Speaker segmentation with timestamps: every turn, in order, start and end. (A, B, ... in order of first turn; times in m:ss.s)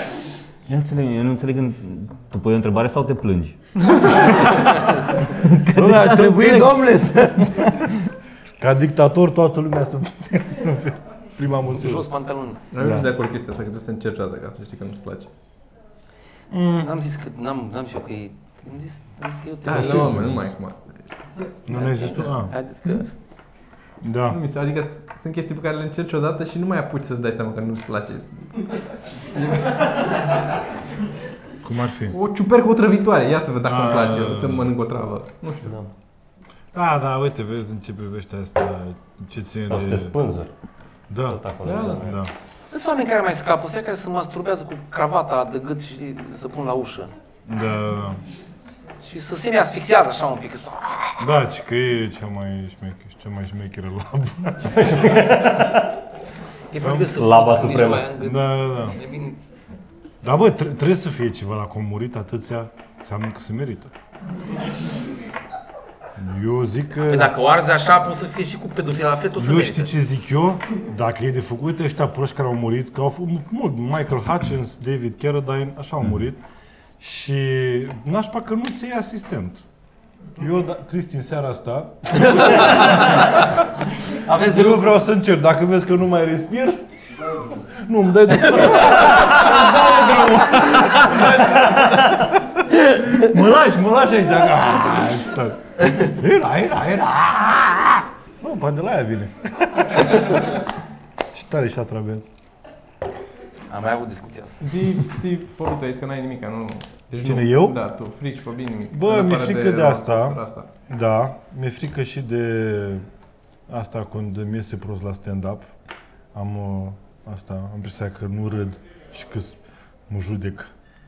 0:00.7-0:06.8 A
0:05.7-0:07.9 B
0:08.6-0:12.1 B
0:11.7-0:12.6 C
0:12.7-0:15.3 D
0:12.8-0:13.1 B
0:16.5-0:16.9 B
0:16.8-0:20.3 C
0:19.7-0:21.1 D
0:19.7-0:20.4 B
0:21.7-0:22.5 B
0:21.7-0:23.1 C
0:24.0-0:24.4 B
0:24.3-0:28.6 D
0:29.3-0:29.9 D
0:31.6-0:32.2 B
0:32.1-0:35.7 D
0:33.6-0:34.7 B
0:35.6-0:35.9 E
0:36.7-0:40.2 B
0:39.7-0:40.5 E
0:41.1-0:42.3 B
0:41.2-0:42.2 E
0:41.6-0:42.0 D
0:42.7-0:47.1 C
0:47.4-0:48.2 B
0:49.0-0:51.3 C
0:51.2-0:55.1 B
0:54.7-0:55.9 E
0:56.7-0:59.4 C
0:56.8-0:57.2 B
0:57.1-0:58.1 E
0:57.9-0:59.0 B
1:00.2-1:03.9 B
1:06.2-1:07.4 B
1:07.0-1:09.9 C
1:09.4-1:16.4 B
1:17.0-1:19.6 B
1:20.4-1:23.3 B
1:22.1-1:23.5 C
1:24.2-1:25.0 C
1:24.3-1:26.8 B
1:27.5-1:40.6 B
1:41.3-1:42.2 B
1:43.7-1:44.7 C
1:44.6-1:50.7 D
1:47.2-1:47.8 B
1:48.9-1:53.0 B
1:53.7-1:55.7 B
1:56.3-1:59.6 B
2:00.1-2:00.7 B